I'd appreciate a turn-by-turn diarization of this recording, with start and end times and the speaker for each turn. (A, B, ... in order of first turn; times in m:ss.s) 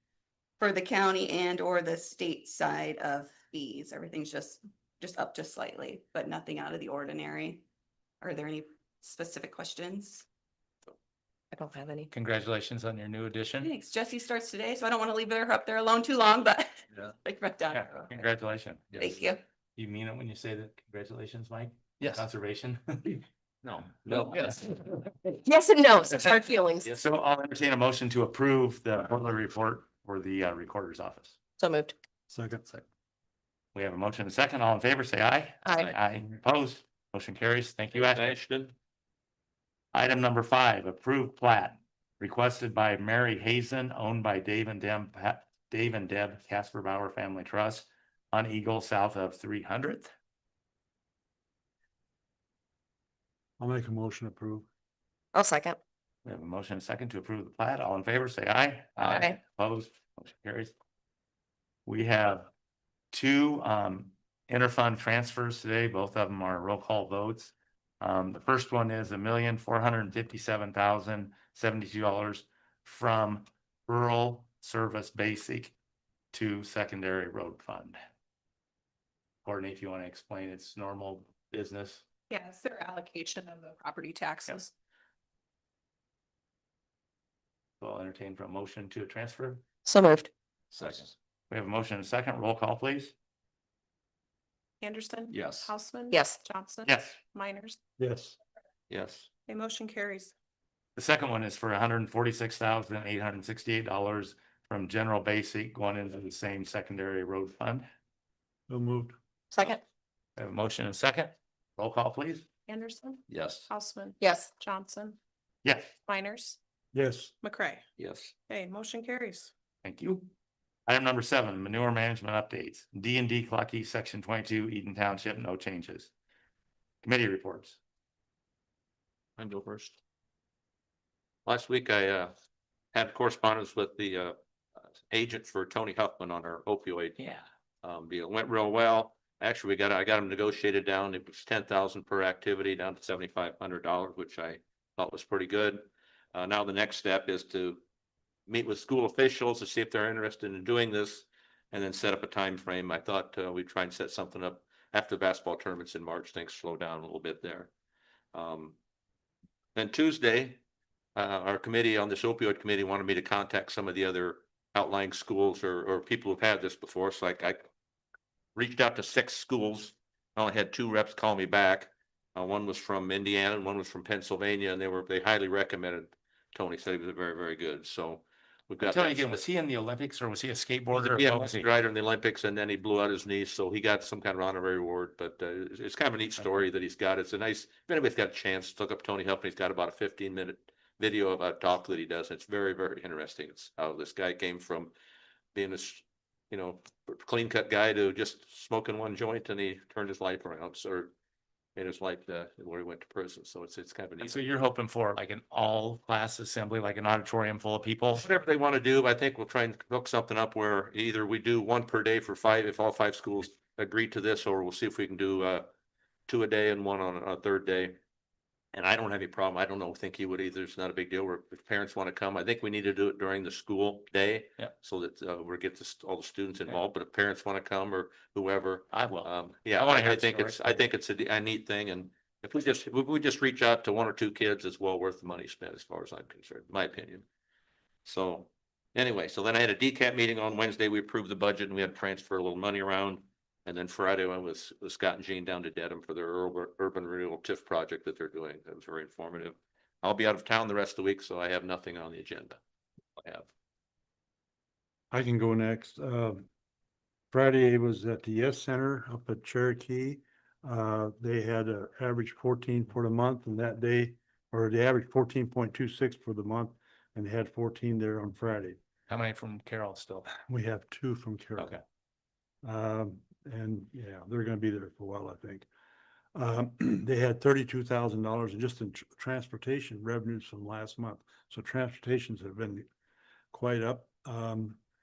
0:00.6-0:07.6 A
0:08.2-0:10.3 A
0:11.5-0:12.1 B
0:12.1-0:13.7 C
0:13.6-0:18.1 A
0:17.7-0:18.9 C
0:19.0-0:19.4 A
0:19.8-0:23.2 C
0:23.6-0:24.8 D
0:25.4-0:26.9 B
0:26.9-0:31.4 C
0:31.6-0:31.9 B
0:32.3-0:32.6 E
0:33.7-0:38.3 C
0:35.6-0:35.9 B
0:37.9-0:38.7 D
0:39.9-0:50.1 C
0:53.6-0:54.7 E
0:55.3-0:55.8 B
0:56.2-1:00.7 C
0:59.0-0:59.4 B
1:01.8-1:02.5 C
1:03.1-1:15.7 C
1:16.3-1:18.0 C
1:19.4-1:22.0 C
1:22.3-1:24.7 F
1:27.8-1:29.6 C
1:29.8-1:30.3 B
1:30.7-1:31.1 D
1:30.8-1:33.1 C
1:34.8-1:37.8 F
1:35.3-1:35.7 D
1:36.1-1:36.4 B
1:36.8-1:37.2 C
1:38.0-1:38.4 E
1:38.9-1:39.3 D
1:39.5-1:40.3 F
1:41.0-1:47.9 C
1:48.7-1:49.2 E
1:49.5-1:49.8 B
1:50.4-1:52.5 C
1:52.7-1:55.2 F
1:53.3-1:53.7 D
1:54.2-1:54.5 B
1:55.6-1:55.9 C
1:56.0-1:56.6 F
1:56.9-1:57.3 E
1:57.4-1:57.8 F
1:58.0-1:58.3 D
1:58.5-1:59.5 F
1:59.8-2:00.3 C
2:00.9-2:06.1 C
2:07.0-2:07.8 C
2:09.4-2:10.0 D
2:11.4-2:12.3 D
2:12.9-2:14.4 D
2:15.0-2:17.2 D
2:17.2-2:17.4 C
2:17.8-2:27.8 D
2:28.5-2:37.7 D
2:38.3-2:38.8 D
2:39.7-2:40.6 D
2:41.2-2:47.6 D
2:48.5-2:59.4 D
2:58.8-3:01.7 C
3:00.9-3:14.9 D
3:15.5-3:21.1 D
3:21.8-3:24.4 D
3:24.2-3:28.2 C
3:28.1-3:35.7 D
3:36.3-3:38.0 D
3:38.7-3:57.2 D
3:48.9-3:50.8 C
3:58.0-4:12.6 D
4:13.2-4:13.5 D
4:15.1-4:16.4 E
4:17.3-4:28.8 E
4:29.1-4:30.2 C
4:30.3-4:31.8 E
4:32.6-4:35.7 E
4:36.3-4:42.9 E
4:43.5-4:44.8 E